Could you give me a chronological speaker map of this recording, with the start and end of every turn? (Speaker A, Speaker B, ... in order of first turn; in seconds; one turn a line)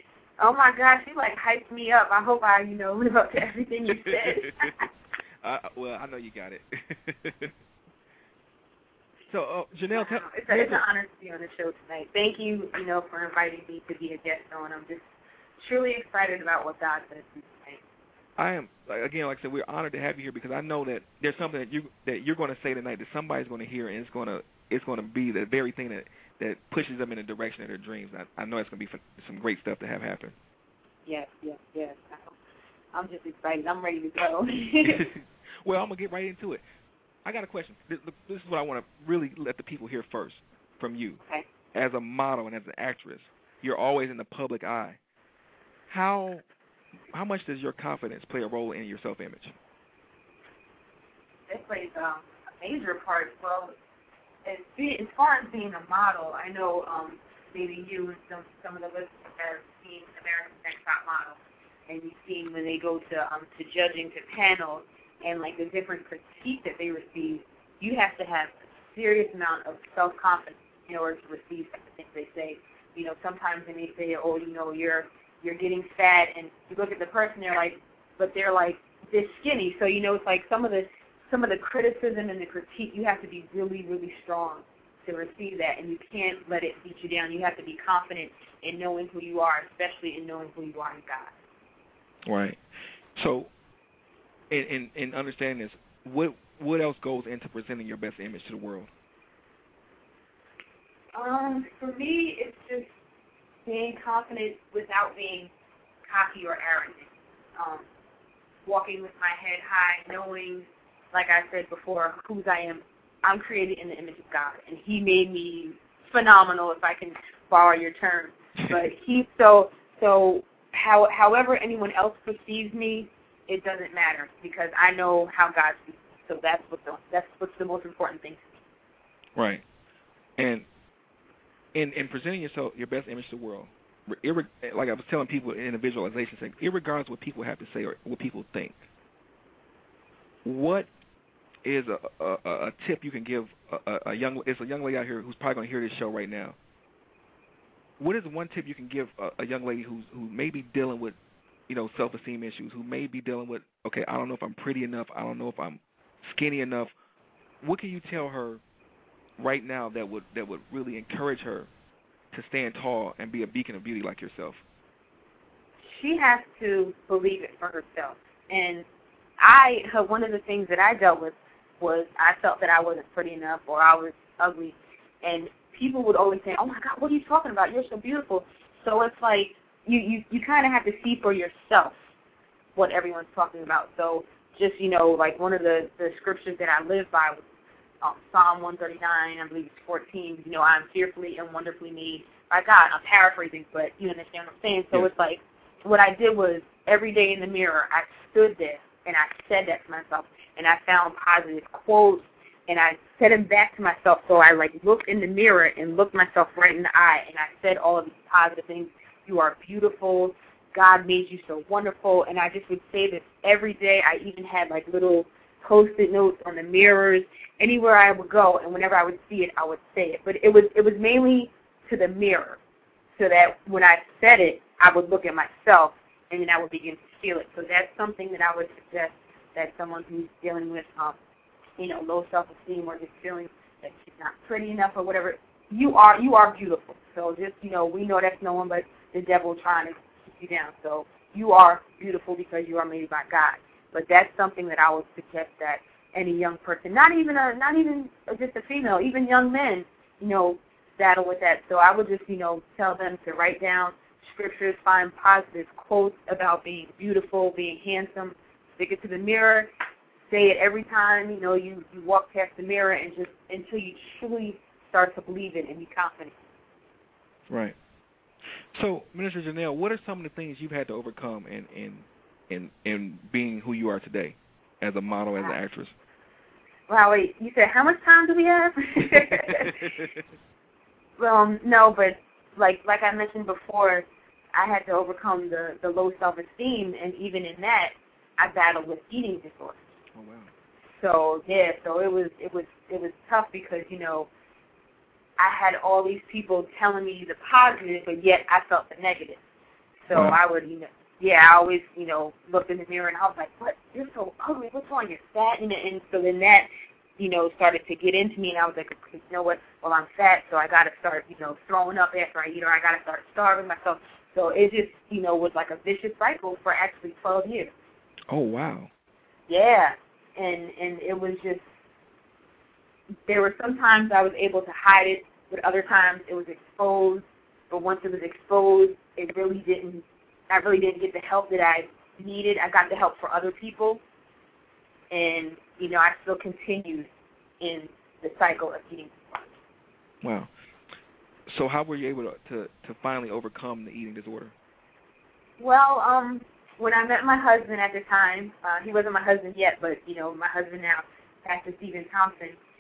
Speaker A: 0.4-4.7
Speaker B: 3.9-4.8
Speaker B: 5.4-7.5
Speaker B: 9.3-10.8
Speaker A: 9.9-15.0
Speaker A: 15.6-17.8
Speaker B: 18.4-30.3
Speaker A: 31.1-32.4
Speaker A: 32.9-35.0
Speaker B: 34.9-36.6
Speaker B: 37.2-41.2
Speaker B: 41.7-45.0
Speaker B: 45.9-46.4
Speaker B: 47.1-49.5
Speaker A: 51.5-53.7
Speaker A: 54.5-61.4
Speaker A: 61.9-91.3
Speaker B: 92.3-92.6
Speaker B: 93.2-93.5
Speaker B: 94.5-98.9
Speaker A: 101.1-102.9
Speaker A: 103.7-105.5
Speaker A: 106.1-107.8
Speaker A: 108.7-128.5
Speaker B: 129.4-129.6
Speaker B: 130.4-130.7
Speaker B: 131.8-138.8
Speaker B: 140.4-140.9
Speaker B: 141.7-146.6
Speaker B: 148.0-151.2
Speaker B: 151.7-156.9
Speaker B: 157.6-158.6
Speaker B: 159.4-161.7
Speaker B: 162.3-164.6
Speaker A: 165.9-168.8
Speaker A: 169.4-181.9
Speaker A: 182.8-187.4
Speaker A: 188.0-222.6
Speaker A: 223.2-231.2
Speaker A: 231.8-259.7
Speaker A: 260.3-266.4
Speaker B: 267.5-267.8
Speaker B: 268.7-275.9
Speaker A: 276.9-279.8
Speaker B: 279.5-280.2
Speaker A: 281.2-289.8
Speaker B: 290.1-290.5
Speaker A: 291.0-294.3
Speaker A: 295.4-299.4
Speaker A: 300.1-317.7
Speaker B: 318.3-318.9
Speaker A: 319.5-321.6
Speaker A: 323.3-334.0
Speaker A: 335.1-337.1
Speaker A: 337.6-339.5
Speaker B: 340.2-340.5
Speaker B: 341.5-344.5
Speaker A: 345.6-352.6